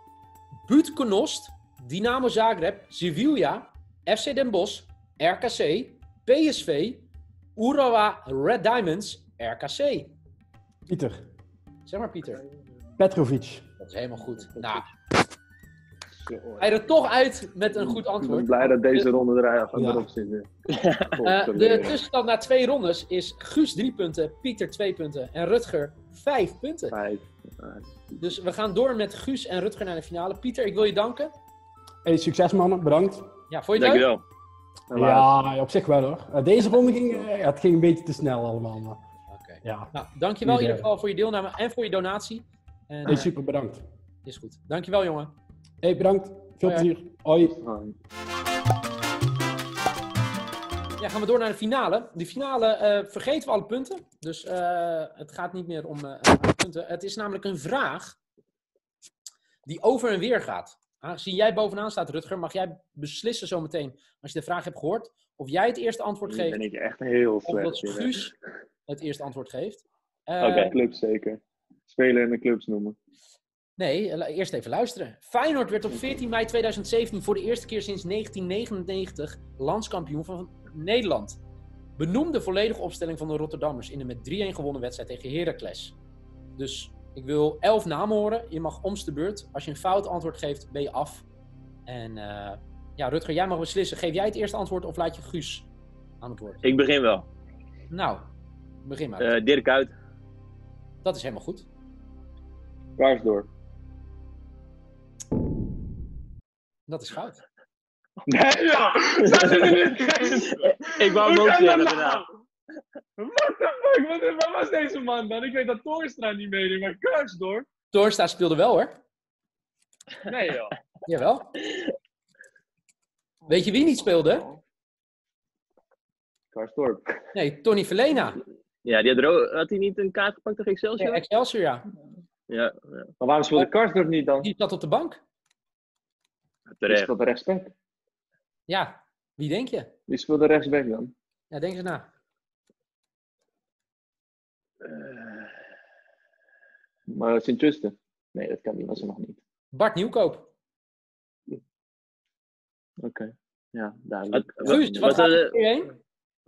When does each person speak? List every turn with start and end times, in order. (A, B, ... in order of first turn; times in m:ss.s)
0:00.6-0:10.1 A
0:10.9-0:11.2 B
0:11.8-0:12.4 A
0:13.0-0:13.6 B
0:13.8-0:14.9 A
0:16.2-0:16.8 C
0:16.6-0:19.1 A
0:17.8-0:20.5 C
0:19.7-0:20.0 B
0:21.1-0:22.0 C
0:21.2-0:26.9 A
0:26.9-0:28.0 C
0:28.2-0:31.3 A
0:32.0-0:33.2 B
0:33.5-0:34.1 A
0:33.8-0:34.2 D
0:34.9-0:35.4 C
0:34.9-0:39.0 B
0:39.3-0:43.3 A
0:39.6-0:39.9 B
0:40.4-0:40.8 B
0:43.0-0:43.8 B
0:44.2-0:45.4 A
0:45.8-0:47.5 B
0:46.6-0:46.9 A
0:47.4-0:48.0 C
0:51.0-0:58.2 A
0:59.6-1:06.6 A
1:06.3-1:08.1 C
1:07.4-1:08.3 A
1:08.9-1:10.7 A
1:10.4-1:13.0 C
1:13.8-1:21.4 A
1:22.0-1:26.0 A
1:26.6-1:31.2 A
1:31.9-1:35.7 A
1:36.2-1:36.7 A
1:36.6-1:37.2 D
1:37.9-1:38.2 A
1:38.8-1:39.4 A
1:39.2-1:39.9 D
1:41.0-1:41.7 A
1:43.0-1:43.5 C
1:46.9-1:47.4 A
1:48.3-1:52.2 C
1:50.6-1:52.2 D
1:53.2-1:57.7 C
1:57.9-1:59.0 A
2:00.2-2:00.7 C
2:01.0-2:01.6 A
2:03.5-2:04.5 A
2:06.5-2:07.1 C
2:07.3-2:08.4 A
2:08.8-2:11.2 D
2:11.0-2:11.8 A
2:12.5-2:13.1 D
2:13.2-2:14.5 C
2:14.4-2:15.2 A
2:16.7-2:17.1 D
2:16.8-2:17.7 C
2:18.7-2:19.9 A
2:20.1-2:21.1 C
2:21.5-2:22.1 A
2:27.1-2:29.4 C
2:29.7-2:30.5 A
2:33.0-2:35.2 C
2:34.3-2:35.5 D
2:34.6-2:35.9 A